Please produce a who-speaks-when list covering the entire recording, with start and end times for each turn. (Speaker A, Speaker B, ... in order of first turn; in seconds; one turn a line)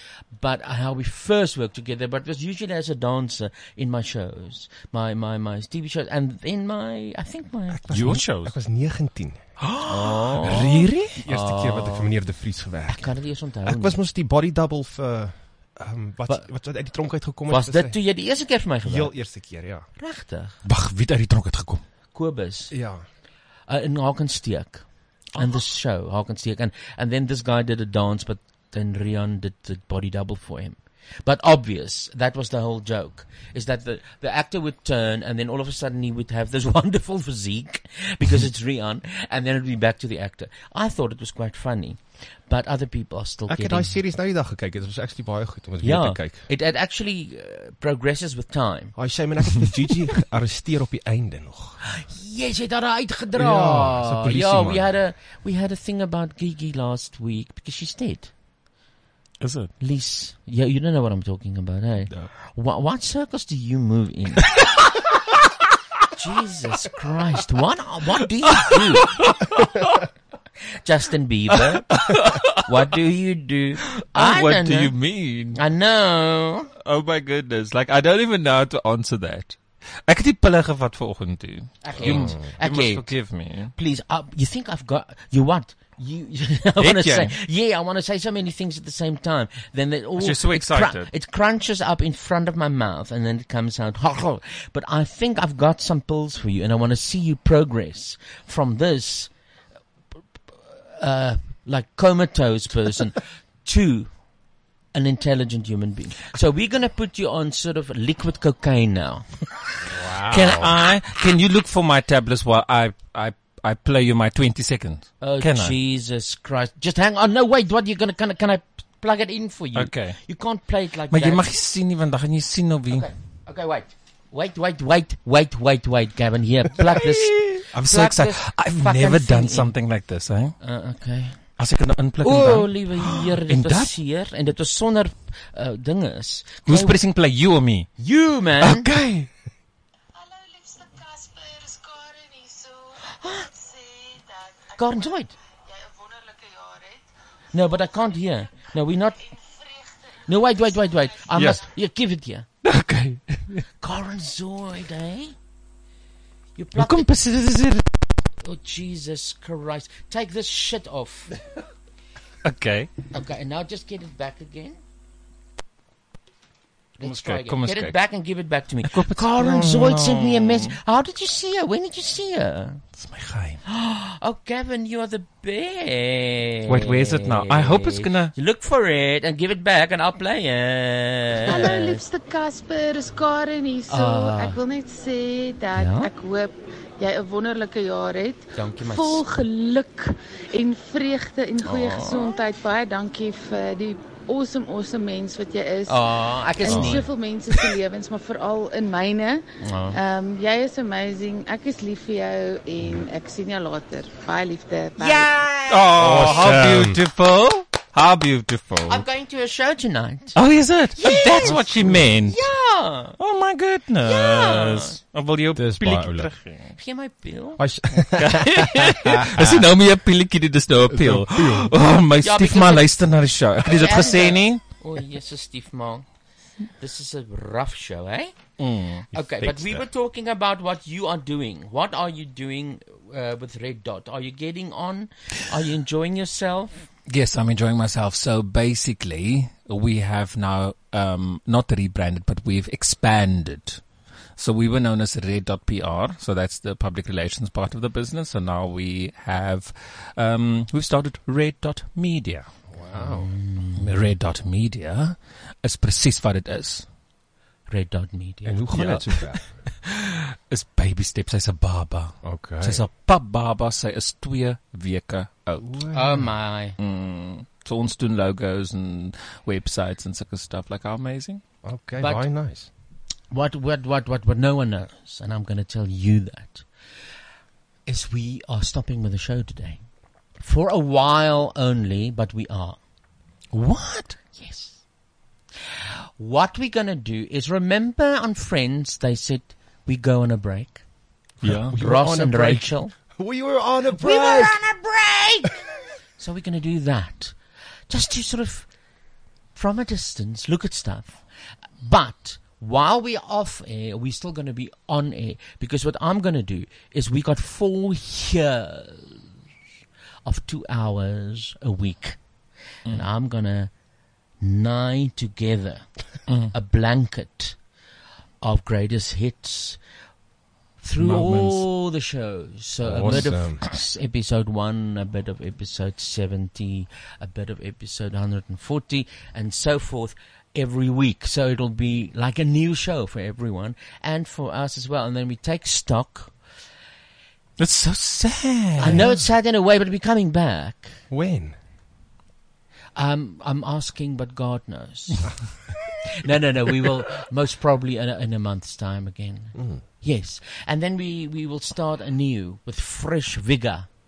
Speaker A: 0.4-7.8
Speaker B: 7.7-9.5
Speaker C: 7.9-8.6
Speaker C: 9.7-11.1
Speaker A: 9.9-12.2
Speaker B: 10.4-18.0
Speaker A: 12.9-14.0
Speaker A: 17.5-19.2
Speaker B: 18.8-19.9
Speaker A: 20.0-20.6
Speaker C: 20.6-21.8
Speaker A: 22.1-22.7
Speaker B: 22.7-23.0
Speaker A: 23.7-43.9
Speaker B: 43.5-46.5
Speaker A: 45.8-49.0
Speaker B: 49.0-51.8
Speaker A: 51.9-58.3
Speaker B: 53.3-55.0
Speaker C: 59.4-59.7
Speaker A: 59.8-64.6
Speaker A: 66.1-69.2
Speaker C: 68.7-70.0
Speaker A: 70.8-75.0
Speaker C: 71.5-72.8
Speaker C: 74.0-75.6
Speaker A: 75.5-76.7
Speaker C: 76.8-83.7
Speaker A: 81.8-83.1
Speaker B: 82.0-82.4
Speaker A: 83.8-99.3
Speaker C: 86.8-87.3
Speaker C: 90.2-91.1
Speaker A: 100.7-104.2
Speaker A: 104.9-109.3
Speaker B: 109.9-110.7
Speaker C: 110.2-115.8
Speaker A: 115.2-121.4
Speaker C: 119.8-120.2
Speaker C: 121.1-123.1
Speaker A: 122.9-129.7
Speaker C: 126.9-130.6
Speaker A: 130.6-131.4
Speaker C: 131.6-133.9
Speaker A: 132.2-137.0
Speaker C: 136.7-137.9
Speaker A: 138.0-138.9
Speaker C: 138.6-139.3
Speaker D: 140.2-145.1
Speaker A: 143.1-143.5
Speaker A: 144.8-145.3
Speaker D: 145.6-147.1
Speaker A: 147.5-149.2
Speaker D: 149.3-150.5
Speaker A: 150.3-152.5
Speaker C: 151.3-151.6
Speaker C: 152.6-153.7
Speaker A: 153.8-155.4
Speaker A: 156.6-157.1
Speaker C: 156.8-157.9
Speaker A: 158.4-161.3
Speaker C: 162.4-162.9
Speaker A: 163.1-164.8
Speaker A: 167.0-172.8
Speaker C: 167.0-168.0
Speaker C: 168.9-170.8
Speaker C: 173.0-173.6
Speaker A: 173.7-182.1
Speaker C: 176.7-178.3
Speaker D: 181.5-205.3
Speaker A: 183.9-184.6
Speaker A: 185.8-186.1
Speaker A: 188.5-189.2
Speaker A: 191.6-192.3
Speaker A: 195.9-197.1
Speaker B: 196.7-197.0
Speaker A: 199.6-200.0
Speaker A: 205.0-206.5
Speaker C: 205.7-209.0
Speaker B: 205.9-207.0
Speaker A: 208.9-210.4
Speaker C: 210.3-212.4
Speaker A: 211.0-213.2
Speaker B: 211.4-212.1
Speaker C: 213.2-216.8
Speaker A: 214.1-215.0
Speaker B: 215.5-216.3
Speaker A: 216.8-217.6
Speaker B: 217.6-219.7
Speaker C: 218.2-224.6
Speaker B: 220.9-221.7
Speaker A: 222.2-223.0
Speaker A: 223.7-226.1
Speaker A: 226.8-228.4
Speaker C: 228.6-229.1
Speaker A: 229.1-236.8
Speaker B: 229.1-229.9
Speaker C: 237.1-243.8
Speaker C: 244.4-252.5
Speaker B: 252.7-253.3
Speaker A: 253.0-253.8
Speaker C: 253.8-256.9
Speaker A: 257.7-258.7
Speaker B: 258.4-259.4
Speaker C: 258.7-265.8
Speaker B: 262.2-262.9
Speaker B: 265.6-266.3
Speaker A: 265.9-266.8
Speaker C: 266.8-271.4
Speaker B: 271.6-272.7
Speaker A: 272.0-272.3
Speaker A: 273.3-276.7
Speaker A: 277.9-279.8
Speaker A: 280.4-282.8
Speaker C: 283.5-284.1
Speaker A: 283.9-284.8
Speaker A: 286.2-290.8
Speaker B: 291.4-294.6
Speaker C: 291.4-291.7
Speaker A: 291.8-292.9
Speaker A: 293.9-295.5
Speaker A: 296.2-297.4
Speaker A: 297.9-298.7
Speaker A: 299.6-301.2
Speaker A: 301.8-309.3
Speaker A: 310.2-312.2
Speaker A: 312.9-313.7
Speaker A: 314.4-315.9
Speaker C: 316.3-316.5
Speaker A: 316.5-317.6
Speaker A: 318.4-319.8
Speaker A: 320.8-336.3
Speaker C: 321.0-321.6
Speaker B: 322.8-323.6
Speaker C: 337.6-339.1
Speaker A: 338.8-341.0
Speaker B: 338.9-339.2
Speaker B: 341.1-341.6
Speaker A: 343.0-345.4
Speaker A: 346.1-353.9
Speaker B: 349.6-349.8